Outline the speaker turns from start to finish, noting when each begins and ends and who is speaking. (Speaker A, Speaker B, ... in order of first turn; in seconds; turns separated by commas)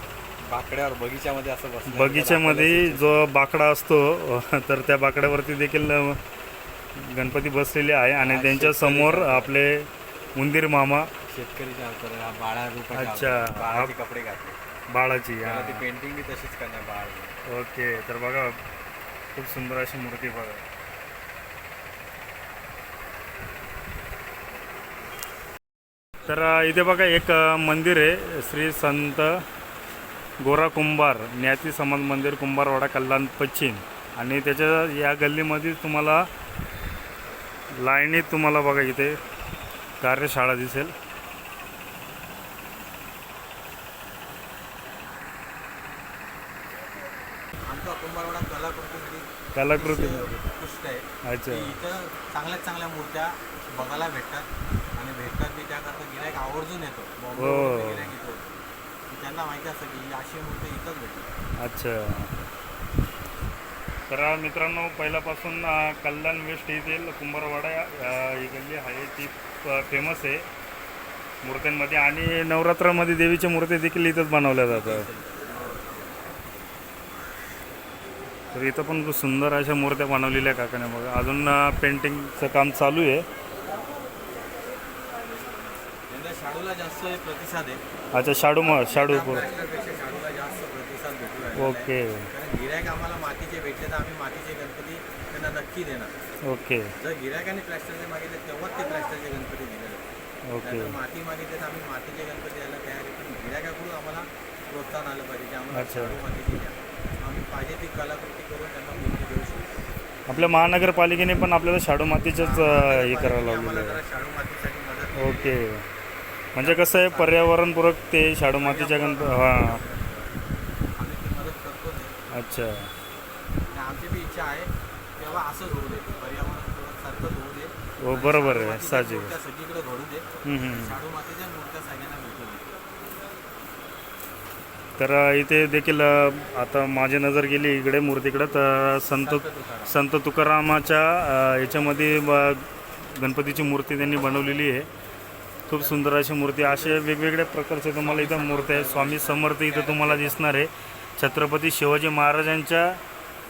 Speaker A: 0.4-3.2, Speaker B: 1.9-6.2, Speaker B: 7.0-11.1, Speaker A: 8.2-9.5, Speaker A: 11.3-14.6, Speaker B: 12.9-13.9, Speaker B: 14.9-15.8, Speaker A: 15.4-17.4, Speaker B: 17.5-18.6, Speaker B: 19.3-20.6, Speaker B: 26.2-29.4, Speaker B: 30.4-36.3, Speaker B: 37.8-39.1, Speaker B: 40.0-40.9, Speaker A: 47.6-58.5, Speaker B: 49.5-50.4, Speaker B: 51.2-51.7, Speaker B: 57.4-58.1, Speaker A: 59.1-61.3, Speaker B: 61.6-62.3, Speaker B: 64.1-70.5, Speaker B: 71.4-75.1, Speaker A: 74.7-76.4, Speaker B: 78.5-83.2, Speaker A: 86.1-87.8, Speaker B: 88.1-89.5, Speaker A: 88.7-96.1, Speaker B: 91.5-92.3, Speaker B: 96.5-96.9, Speaker A: 97.0-100.0, Speaker B: 100.5-101.0, Speaker A: 100.6-109.7, Speaker B: 105.7-106.2, Speaker B: 110.3-114.0, Speaker A: 112.2-115.4, Speaker B: 115.2-115.8, Speaker B: 116.5-119.8, Speaker A: 116.6-117.4, Speaker A: 118.5-120.4, Speaker A: 121.0-122.1, Speaker B: 122.3-122.9, Speaker A: 123.7-132.7, Speaker B: 128.0-129.3, Speaker B: 130.4-131.0, Speaker B: 135.0-144.9, Speaker A: 139.1-139.9, Speaker B: 145.7-153.0, Speaker A: 145.8-147.0, Speaker A: 148.0-150.4